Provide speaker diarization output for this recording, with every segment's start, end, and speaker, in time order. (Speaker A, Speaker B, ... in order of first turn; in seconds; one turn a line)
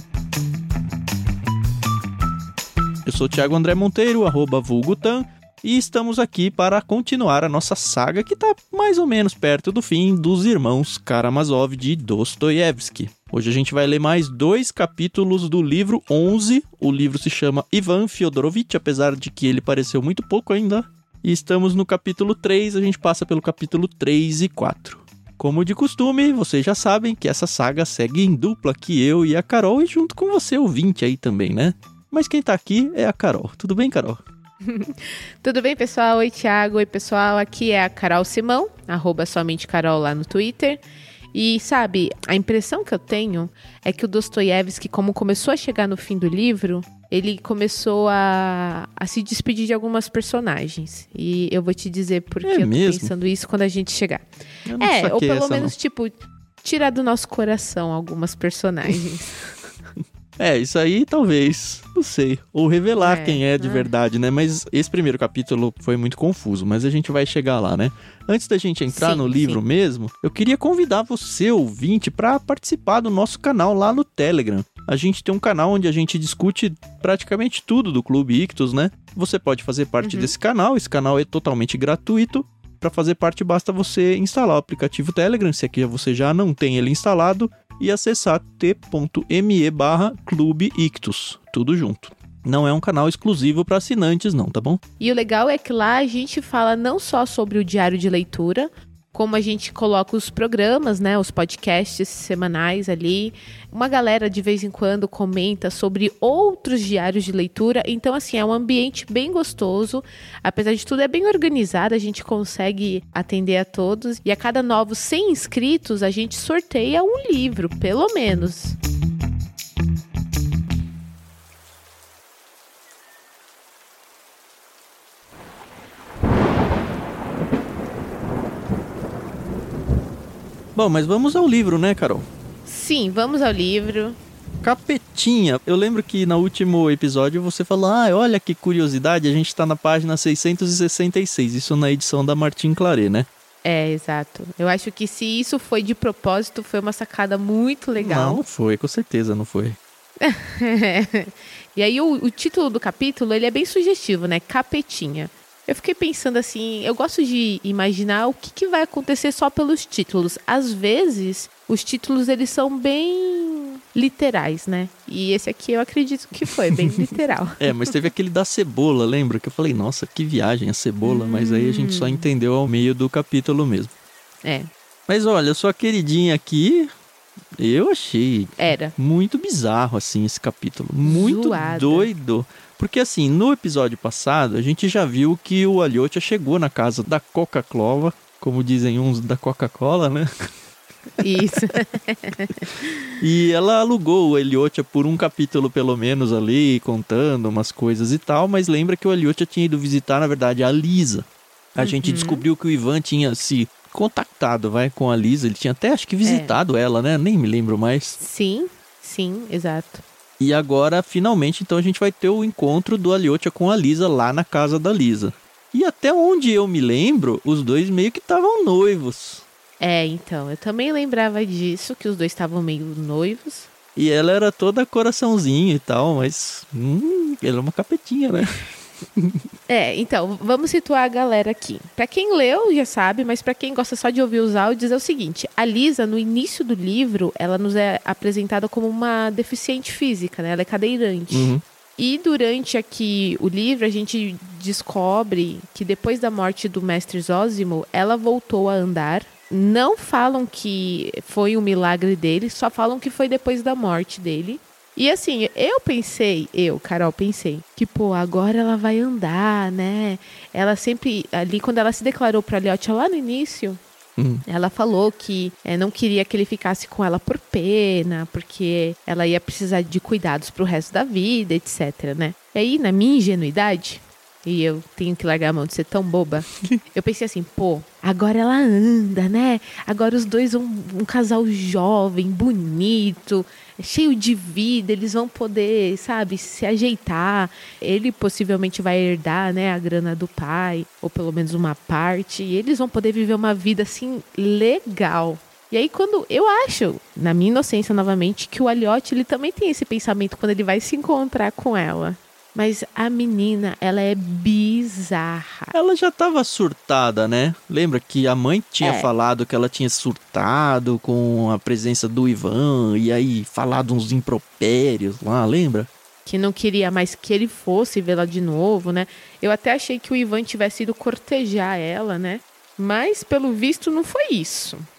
Speaker A: 3.0-34.2
Speaker B: 34.6-40.8
Speaker B: 41.3-54.2
Speaker A: 52.4-53.1
Speaker A: 54.6-55.7
Speaker B: 54.8-59.3
Speaker A: 60.4-94.8
Speaker B: 63.0-63.9
Speaker B: 68.9-69.6
Speaker B: 80.0-80.3
Speaker B: 95.0-118.8
Speaker A: 130.7-132.2
Speaker B: 132.7-134.2
Speaker A: 134.6-143.3
Speaker B: 143.6-148.4
Speaker A: 148.0-149.8
Speaker B: 150.2-167.9
Speaker A: 167.6-173.9
Speaker B: 171.0-172.3
Speaker B: 174.4-174.7
Speaker A: 175.1-176.9
Speaker A: 177.6-190.3
Speaker B: 178.6-178.9
Speaker B: 181.0-182.1
Speaker B: 191.2-193.0
Speaker A: 193.2-208.2
Speaker B: 201.8-202.4
Speaker B: 206.2-206.6
Speaker B: 208.2-210.0
Speaker A: 210.4-219.4
Speaker B: 219.8-223.7
Speaker A: 223.9-229.4
Speaker B: 229.7-263.8
Speaker A: 241.3-241.6
Speaker A: 264.2-264.4
Speaker B: 264.4-305.7
Speaker A: 305.7-315.9
Speaker B: 308.8-309.1
Speaker B: 316.2-324.8